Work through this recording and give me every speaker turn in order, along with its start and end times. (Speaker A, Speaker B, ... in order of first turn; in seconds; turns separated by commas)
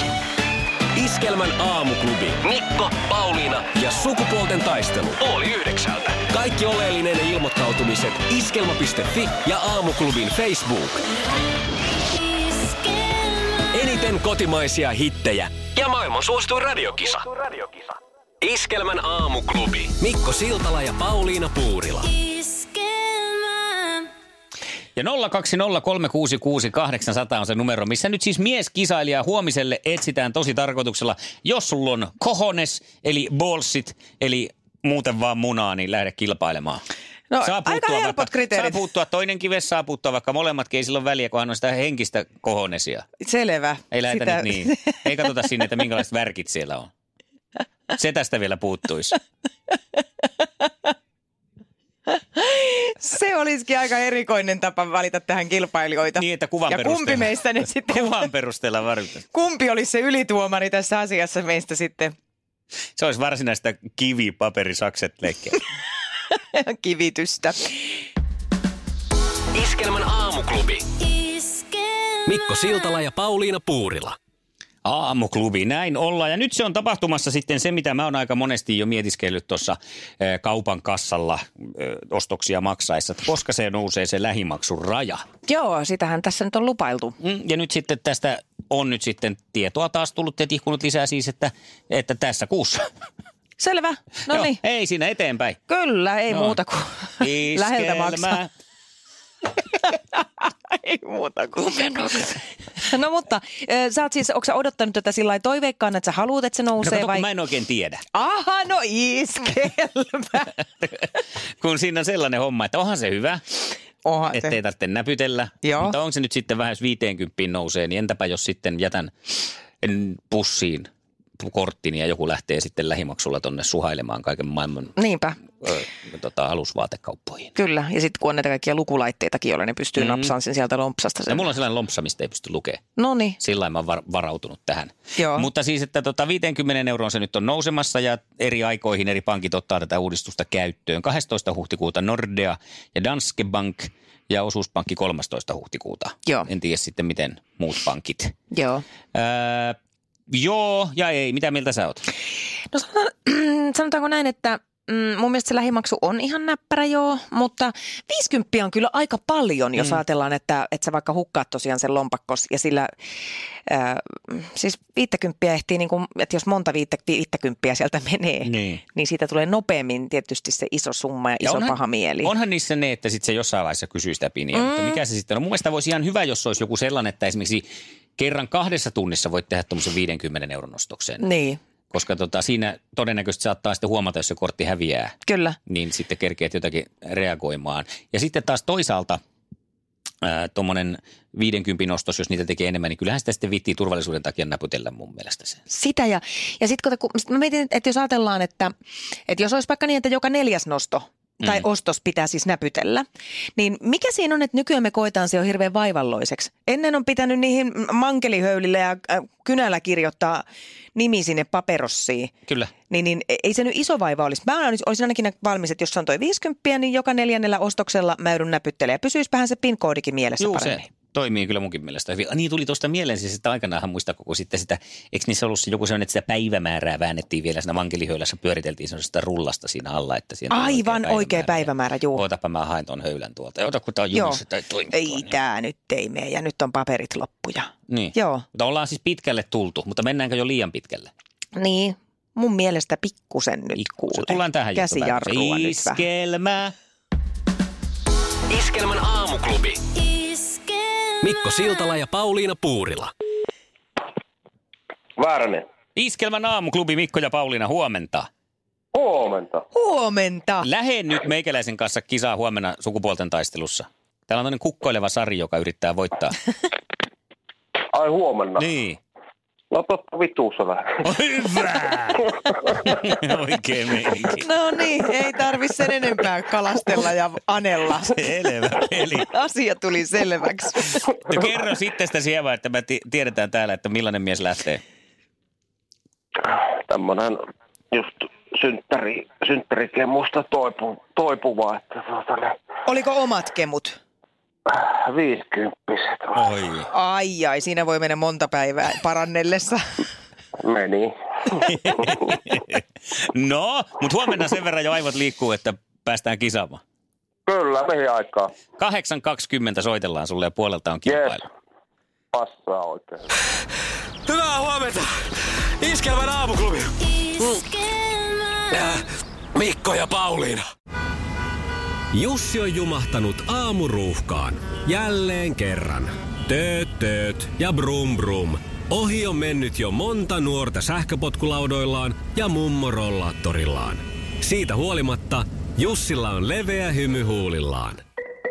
Speaker A: 0.9-2.4, Speaker B: 2.5-3.6, Speaker A: 3.1-5.3, Speaker B: 5.2-6.1, Speaker A: 6.3-11.0, Speaker A: 13.7-17.2, Speaker A: 18.4-22.1, Speaker C: 25.0-36.8, Speaker D: 37.3-38.8, Speaker C: 37.4-43.1, Speaker D: 43.2-45.0, Speaker C: 43.9-46.9, Speaker C: 47.9-49.2, Speaker D: 52.2-58.3, Speaker C: 56.2-59.2, Speaker D: 59.3-62.1, Speaker C: 63.0-65.6, Speaker D: 66.5-67.8, Speaker B: 69.5-70.8, Speaker A: 72.3-74.2, Speaker C: 74.8-85.2, Speaker D: 85.5-87.2, Speaker C: 87.2-92.9, Speaker D: 93.6-94.6, Speaker C: 94.3-95.6, Speaker D: 95.7-98.4, Speaker C: 96.3-96.6, Speaker C: 97.2-98.5, Speaker D: 99.8-107.3, Speaker C: 106.8-108.0, Speaker D: 108.1-110.6, Speaker C: 110.8-113.4, Speaker D: 114.0-114.6, Speaker C: 114.3-119.1, Speaker D: 115.6-116.0, Speaker C: 119.8-120.9, Speaker C: 121.4-125.0, Speaker D: 125.0-125.4, Speaker C: 125.6-127.5, Speaker D: 127.6-131.5, Speaker C: 130.0-130.3, Speaker C: 131.3-132.8, Speaker D: 133.0-133.4, Speaker C: 133.4-148.3, Speaker D: 135.2-135.5, Speaker D: 148.5-148.8, Speaker C: 149.2-149.8, Speaker C: 150.3-152.0, Speaker D: 152.7-162.9, Speaker C: 159.8-160.0, Speaker D: 163.7-172.3, Speaker C: 168.4-168.8, Speaker C: 171.4-177.7, Speaker D: 174.5-175.0, Speaker C: 178.2-181.2, Speaker D: 181.2-181.6, Speaker C: 181.9-185.2, Speaker D: 185.3-185.6, Speaker C: 185.7-189.2, Speaker C: 190.2-195.6, Speaker D: 195.7-198.7, Speaker D: 199.3-203.1, Speaker D: 203.6-212.3, Speaker C: 212.5-212.7, Speaker D: 212.9-220.9, Speaker C: 220.4-235.3, Speaker D: 230.5-232.2, Speaker D: 234.1-234.4, Speaker D: 234.9-238.5, Speaker C: 237.9-241.1, Speaker D: 241.6-246.0, Speaker C: 243.8-246.7, Speaker B: 248.5-249.8, Speaker A: 251.2-253.1, Speaker E: 255.2-255.7, Speaker C: 255.9-258.3, Speaker E: 258.9-259.6, Speaker D: 259.7-260.7, Speaker C: 260.6-266.4, Speaker E: 267.9-268.6, Speaker C: 268.6-269.0, Speaker E: 269.7-271.1, Speaker C: 271.1-274.5, Speaker D: 274.4-281.1, Speaker C: 278.1-279.3, Speaker C: 281.3-284.8, Speaker E: 286.5-292.6, Speaker D: 292.9-294.0, Speaker E: 294.7-296.5, Speaker C: 296.4-296.9, Speaker D: 296.9-299.8, Speaker E: 300.6-301.1, Speaker E: 301.7-302.2, Speaker C: 301.9-306.8, Speaker E: 307.5-308.5, Speaker C: 308.8-311.4, Speaker E: 311.1-311.4, Speaker E: 312.3-313.2, Speaker A: 314.4-314.9, Speaker A: 319.6-320.5, Speaker A: 322.1-338.0